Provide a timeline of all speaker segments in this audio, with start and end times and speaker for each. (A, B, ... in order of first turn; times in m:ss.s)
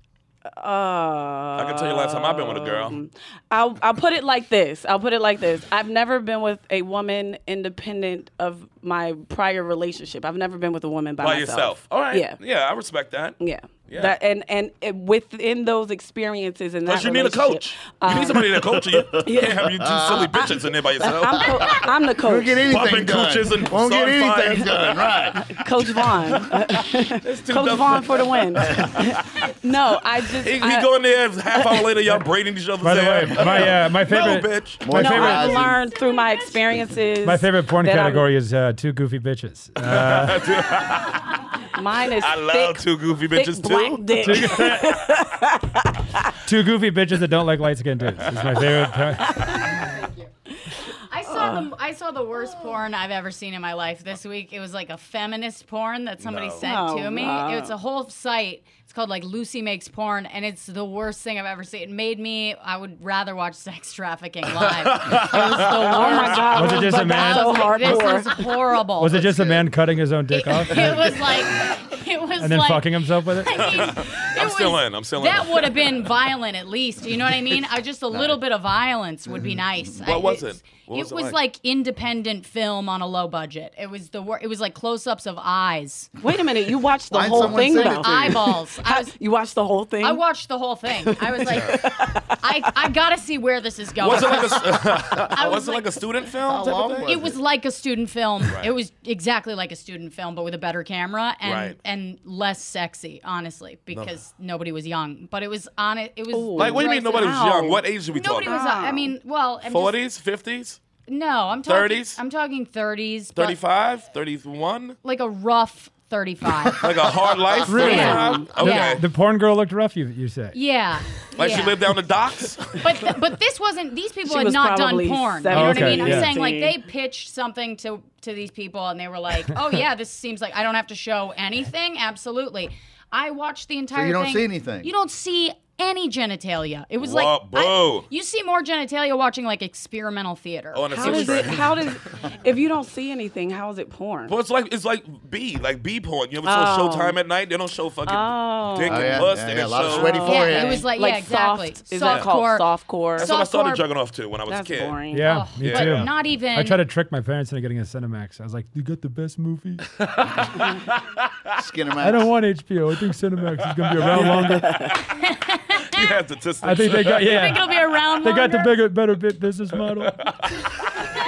0:00.5-0:12.4 A
0:01.6-0:03.0 B
0:11.2-0:13.4 B
0:13.4-0:22.7 A
0:13.9-0:14.2 B
0:16.9-0:21.8 B
0:18.9-0:20.6 C
0:21.3-0:25.5 C
0:22.7-0:25.3 B
0:25.3-0:30.9 A
0:26.0-0:29.2 B
0:30.4-0:34.8 B
0:31.6-0:31.9 A
0:32.8-0:35.7 D
0:34.8-0:35.8 C
0:34.9-0:38.3 A
0:37.2-0:40.6 D
0:39.8-0:41.4 B
0:41.7-0:46.3 A
0:42.1-0:44.8 B
0:44.2-0:45.1 D
0:46.4-0:49.6 D
0:48.2-0:49.0 B
0:49.2-0:49.9 A
0:49.5-0:50.3 E
0:50.6-0:51.7 A
0:50.9-1:09.5 E
0:56.2-0:56.7 B
0:56.6-0:57.7 A
1:04.6-1:06.5 B
1:05.3-1:08.4 A
1:06.5-1:08.2 D
1:09.0-1:11.2 D
1:09.2-1:09.6 C
1:10.3-1:26.1 E
1:12.4-1:13.9 D
1:13.5-1:16.1 B
1:18.1-1:18.4 C
1:19.3-1:19.9 C
1:20.0-1:21.4 B
1:26.2-1:30.2 A
1:27.1-1:28.6 C
1:27.2-1:29.1 E
1:30.0-1:36.0 E
1:31.0-1:32.7 A
1:31.5-1:31.8 B
1:34.0-1:37.2 B
1:36.4-1:37.4 C
1:37.0-1:47.4 E
1:38.4-1:38.7 B
1:41.4-1:41.8 B
1:46.3-1:47.8 A
1:46.6-1:48.6 B
1:48.1-1:50.0 E
1:48.4-1:49.1 A
1:49.6-1:50.8 B
1:51.1-1:53.6 E
1:51.6-1:52.2 B
1:53.3-1:55.0 B
1:55.0-1:57.1 E
1:56.8-1:59.0 B
1:57.0-1:57.6 C
1:57.7-2:00.6 D
1:57.7-1:59.0 E
1:57.8-1:58.5 A
2:00.5-2:01.9 E
2:01.3-2:03.2 B
2:02.8-2:21.5 E
2:04.2-2:06.8 A
2:05.5-2:06.3 D
2:13.9-2:14.9 C
2:17.0-2:18.1 B
2:20.7-2:21.8 B
2:20.9-2:24.3 A
2:24.3-2:30.3 B
2:26.4-2:27.2 A
2:28.0-2:29.3 A
2:28.8-2:30.9 C
2:29.8-2:33.3 A
2:30.2-2:33.8 E
2:33.2-2:35.0 B
2:34.5-2:35.4 A
2:35.1-2:39.9 D
2:35.2-2:36.8 E
2:35.6-2:36.1 B
2:40.0-2:41.0 B
2:41.6-2:42.3 C
2:42.0-2:45.0 D
2:43.7-2:44.7 B
2:44.5-2:45.0 A
2:45.0-2:46.2 E
2:45.8-2:47.6 B
2:46.6-2:50.2 D
2:47.0-2:48.7 E
2:50.0-2:50.6 B